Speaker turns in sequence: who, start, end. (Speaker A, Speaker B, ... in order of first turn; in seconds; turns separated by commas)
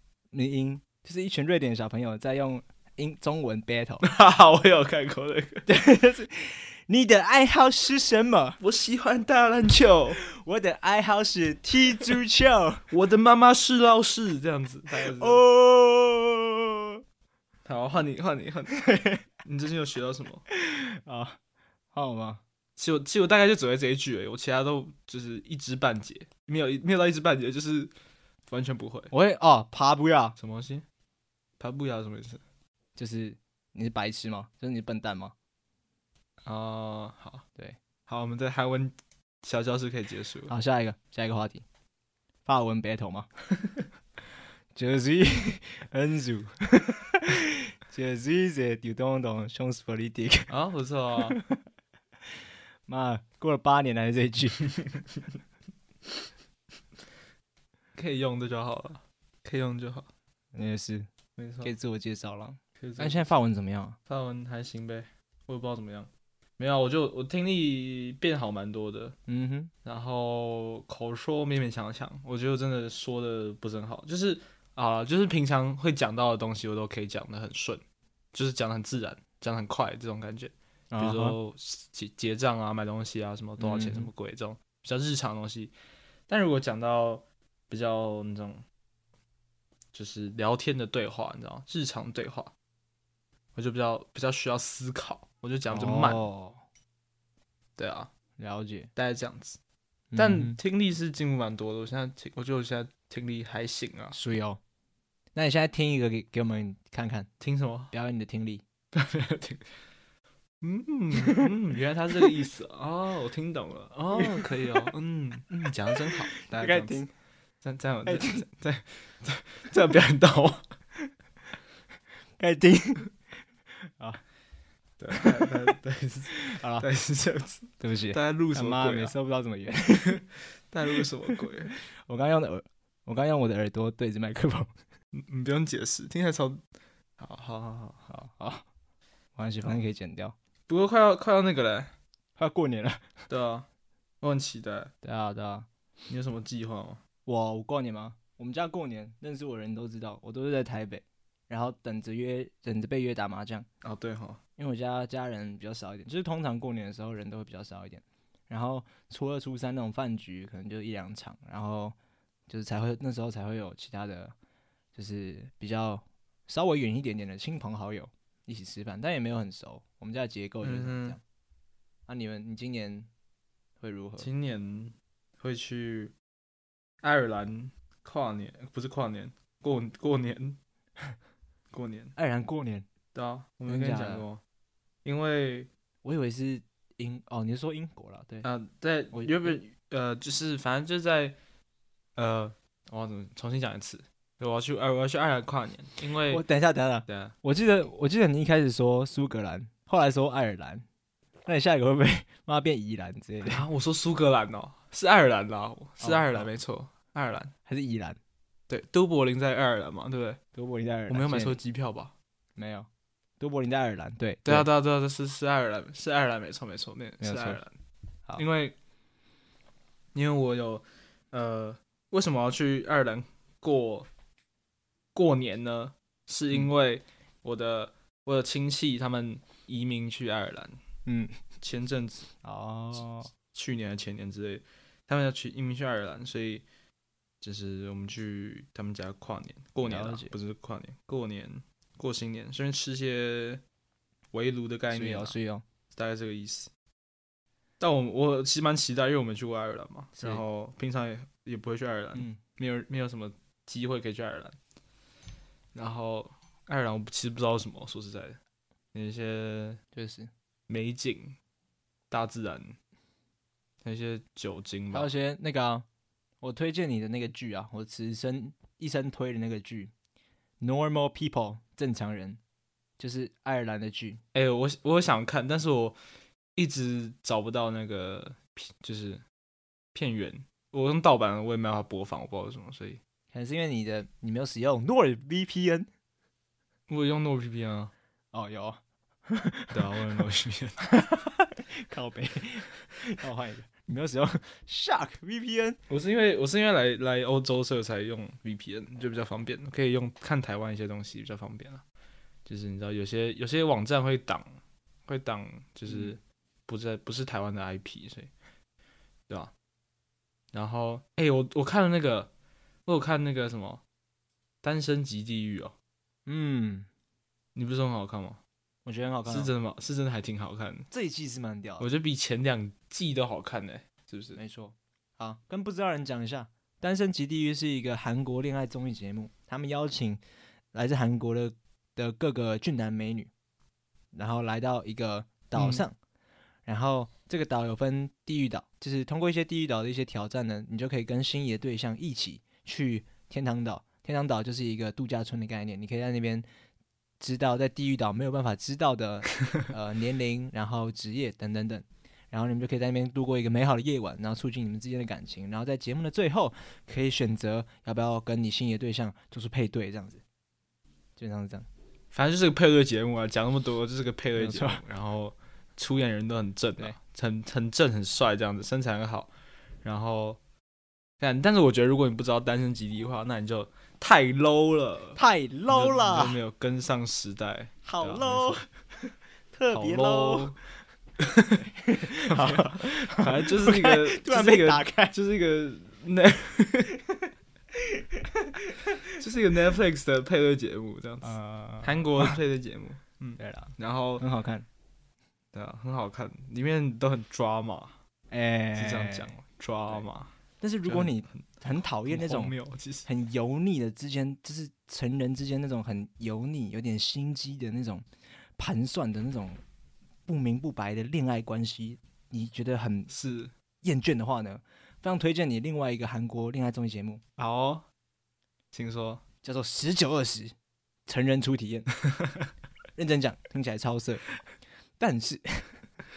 Speaker A: 0.3-4.0, Speaker B: 4.0-5.7, Speaker A: 5.7-8.6, Speaker B: 8.6-10.2, Speaker A: 10.2-12.8, Speaker B: 12.9-15.4, Speaker A: 15.0-17.0, Speaker B: 17.6-20.4, Speaker A: 18.8-19.2, Speaker A: 20.5-21.4, Speaker A: 21.9-22.4, Speaker B: 22.8-27.9, Speaker B: 28.5-29.1, Speaker A: 29.1-30.4, Speaker B: 30.4-30.8, Speaker B: 31.6-32.4, Speaker A: 33.0-35.3, Speaker B: 36.4-37.4, Speaker B: 38.1-40.5, Speaker A: 40.5-41.6, Speaker A: 42.5-43.3, Speaker A: 44.7-50.5, Speaker B: 50.5-51.4, Speaker A: 51.3-51.6, Speaker A: 52.9-54.7, Speaker B: 57.9-60.1, Speaker A: 60.5-61.1, Speaker B: 61.4-61.7, Speaker A: 61.6-64.0, Speaker B: 62.8-63.2, Speaker B: 64.1-69.2, Speaker A: 69.3-69.7, Speaker B: 69.8-77.8, Speaker B: 78.3-85.7, Speaker A: 80.9-81.4, Speaker A: 83.6-84.1, Speaker B: 86.3-88.6, Speaker B: 89.9-92.5, Speaker B: 93.5-96.2, Speaker A: 95.7-96.6, Speaker B: 97.8-98.1, Speaker A: 98.4-98.9, Speaker B: 99.0-99.6, Speaker A: 100.1-100.6, Speaker B: 100.2-104.2, Speaker A: 104.1-104.6, Speaker A: 105.3-107.3, Speaker B: 107.4-107.9, Speaker A: 107.9-108.6, Speaker B: 108.9-109.7, Speaker B: 110.6-117.0, Speaker A: 111.2-111.5, Speaker A: 114.1-114.8, Speaker A: 115.9-117.1, Speaker B: 117.6-120.6, Speaker A: 118.0-118.4, Speaker A: 122.4-123.1, Speaker B: 125.0-129.1, Speaker A: 125.1-125.5, Speaker A: 126.4-126.9, Speaker A: 127.8-130.2, Speaker B: 130.7-131.7, Speaker A: 131.8-134.7, Speaker B: 135.1-136.6, Speaker B: 137.2-138.1, Speaker A: 138.1-138.7, Speaker A: 139.4-140.3, Speaker B: 140.7-141.9, Speaker A: 142.4-143.1, Speaker B: 143.3-143.7, Speaker B: 144.2-144.9, Speaker A: 145.0-145.7, Speaker B: 146.1-147.0, Speaker A: 147.3-153.7, Speaker B: 153.8-154.4, Speaker A: 154.6-161.9, Speaker A: 162.5-164.3, Speaker A: 164.9-171.2, Speaker B: 170.6-171.2, Speaker A: 172.1-173.1, Speaker A: 173.8-174.3, Speaker B: 174.2-176.1, Speaker B: 177.0-180.6, Speaker B: 181.7-182.1, Speaker A: 182.2-182.9, Speaker B: 183.1-184.4, Speaker A: 183.7-184.2, Speaker B: 185.0-185.7, Speaker A: 186.0-188.5, Speaker B: 188.4-191.4, Speaker A: 189.1-189.6, Speaker B: 192.2-196.4, Speaker A: 196.3-200.8, Speaker B: 197.1-197.3, Speaker A: 201.4-203.6, Speaker B: 203.4-207.5, Speaker A: 206.0-206.5, Speaker A: 207.7-208.2, Speaker B: 208.7-210.4, Speaker A: 210.6-211.6, Speaker B: 211.1-212.1, Speaker A: 212.6-212.9, Speaker A: 213.4-214.7, Speaker B: 214.4-217.7, Speaker A: 217.2-217.6, Speaker B: 218.4-218.8, Speaker B: 220.1-224.1, Speaker B: 225.1-230.8, Speaker A: 231.1-231.4, Speaker B: 231.6-232.3, Speaker A: 232.4-233.3, Speaker B: 233.5-236.7, Speaker B: 237.4-243.6, Speaker A: 239.8-240.3, Speaker B: 244.3-245.3, Speaker A: 244.9-245.6, Speaker B: 245.9-246.7, Speaker B: 247.8-254.6, Speaker A: 250.2-250.4, Speaker A: 252.1-252.4, Speaker B: 255.7-258.4, Speaker B: 258.9-259.8, Speaker A: 259.9-260.3, Speaker B: 260.7-261.4, Speaker B: 262.1-262.8, Speaker B: 263.8-265.1, Speaker A: 264.9-265.9, Speaker A: 266.4-269.9, Speaker A: 270.6-272.4, Speaker A: 273.0-274.2, Speaker B: 274.3-276.0, Speaker B: 276.6-279.2, Speaker B: 279.9-283.0, Speaker A: 283.3-285.9, Speaker B: 286.9-287.9, Speaker A: 288.3-290.1, Speaker B: 289.7-290.8, Speaker A: 290.8-295.8, Speaker B: 295.9-301.8, Speaker B: 302.4-308.3, Speaker A: 305.9-306.1, Speaker B: 310.5-312.3, Speaker B: 312.9-313.8, Speaker B: 314.6-315.7, Speaker A: 316.3-316.9, Speaker B: 317.6-318.4, Speaker A: 318.8-319.5, Speaker B: 319.3-320.9, Speaker A: 320.9-321.9, Speaker B: 321.8-324.4, Speaker A: 324.4-330.2, Speaker A: 330.7-333.3, Speaker A: 334.1-335.9, Speaker B: 335.6-335.8, Speaker A: 336.6-346.4, Speaker A: 347.2-360.2, Speaker A: 361.2-361.7, Speaker B: 362.1-370.4, Speaker A: 364.4-364.8, Speaker B: 371.2-375.2, Speaker A: 375.1-376.4, Speaker B: 375.7-378.6, Speaker A: 377.8-378.7, Speaker A: 379.5-380.5, Speaker B: 379.7-380.6, Speaker B: 381.2-381.6, Speaker A: 381.7-385.1, Speaker B: 382.3-387.0, Speaker B: 389.1-394.2, Speaker A: 391.2-392.4, Speaker A: 393.4-394.6, Speaker B: 395.5-398.0, Speaker A: 398.3-399.4, Speaker B: 398.7-400.3, Speaker A: 400.6-402.5, Speaker B: 400.9-403.1, Speaker A: 403.1-408.1, Speaker A: 408.6-409.6, Speaker A: 410.3-413.1, Speaker B: 413.1-413.5, Speaker A: 413.8-417.2, Speaker B: 417.4-417.8, Speaker B: 418.7-419.2, Speaker A: 419.4-420.5, Speaker A: 421.1-421.9, Speaker A: 422.9-424.2, Speaker A: 425.0-425.8